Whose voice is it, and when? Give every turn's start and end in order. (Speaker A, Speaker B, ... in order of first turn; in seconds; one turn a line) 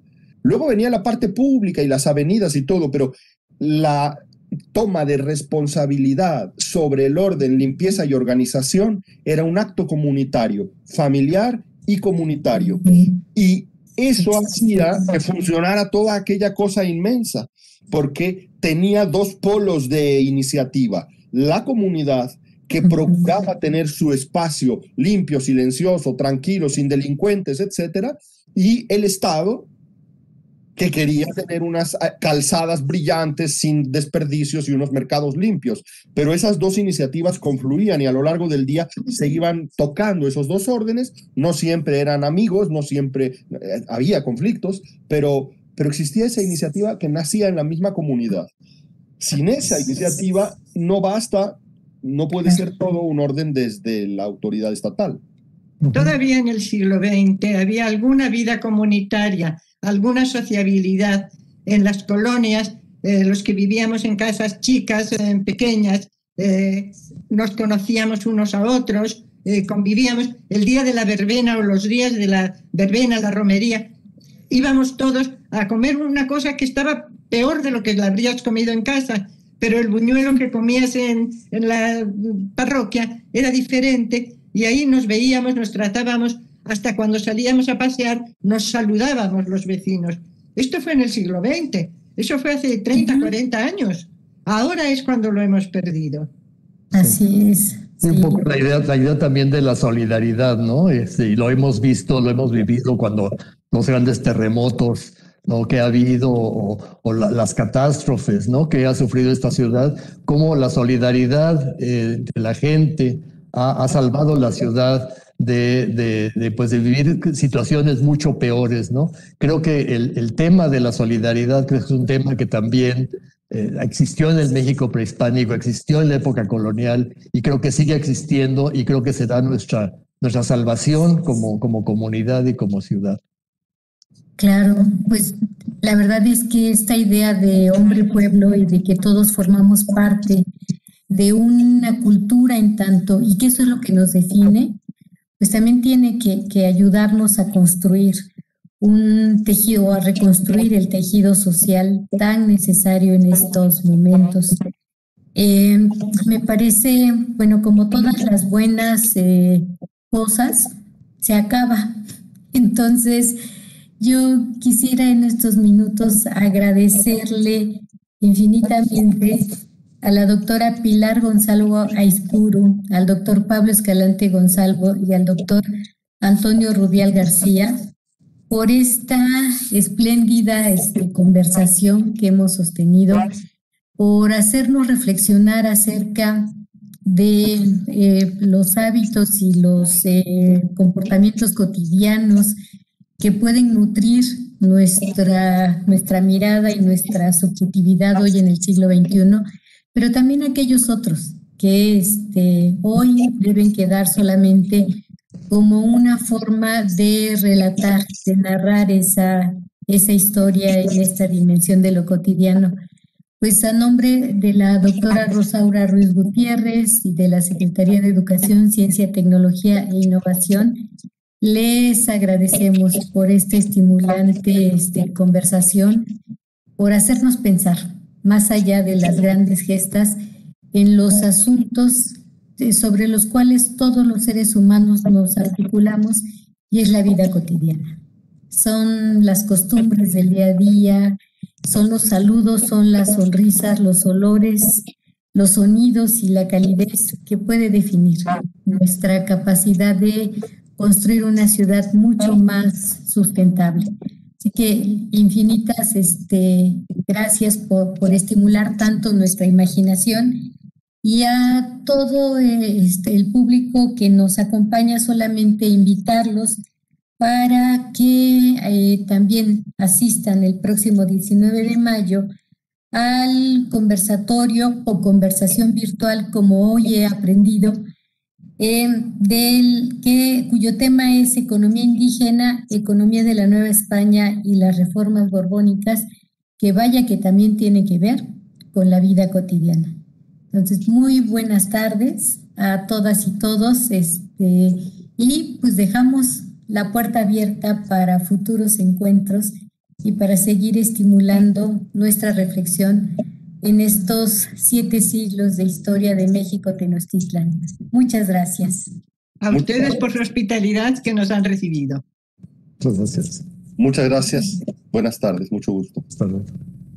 Speaker A: 0.4-4.2
Speaker A: 4.7-29.7
Speaker B: 22.9-23.2
Speaker A: 30.8-48.5
Speaker A: 49.2-55.2
Speaker C: 55.8-56.1
Speaker D: 55.9-73.9
Speaker D: 74.5-96.3
Speaker B: 93.0-93.3
Speaker B: 96.9-98.4
Speaker C: 98.0-133.2
Speaker B: 134.4-140.4
Speaker B: 141.1-144.8
Speaker B: 145.4-148.2
Speaker B: 148.8-154.6
Speaker B: 155.3-161.9
Speaker B: 162.5-163.4
Speaker B: 164.0-175.7
Speaker B: 176.2-177.9
Speaker B: 178.5-183.3
Speaker B: 184.0-186.5
Speaker B: 187.1-192.6
Speaker B: 193.2-204.9
Speaker B: 205.5-212.8
Speaker B: 213.4-220.8
Speaker B: 221.4-226.1
Speaker B: 226.8-230.2
Speaker B: 230.7-237.9
Speaker B: 238.5-266.6
Speaker B: 267.2-272.3
Speaker B: 272.9-277.8
Speaker B: 278.6-286.1
Speaker B: 286.6-289.9
Speaker B: 290.5-308.9
Speaker D: 309.4-312.0
Speaker A: 309.5-309.8
Speaker C: 312.8-313.4
Speaker A: 313.8-316.0
Speaker C: 316.1-316.5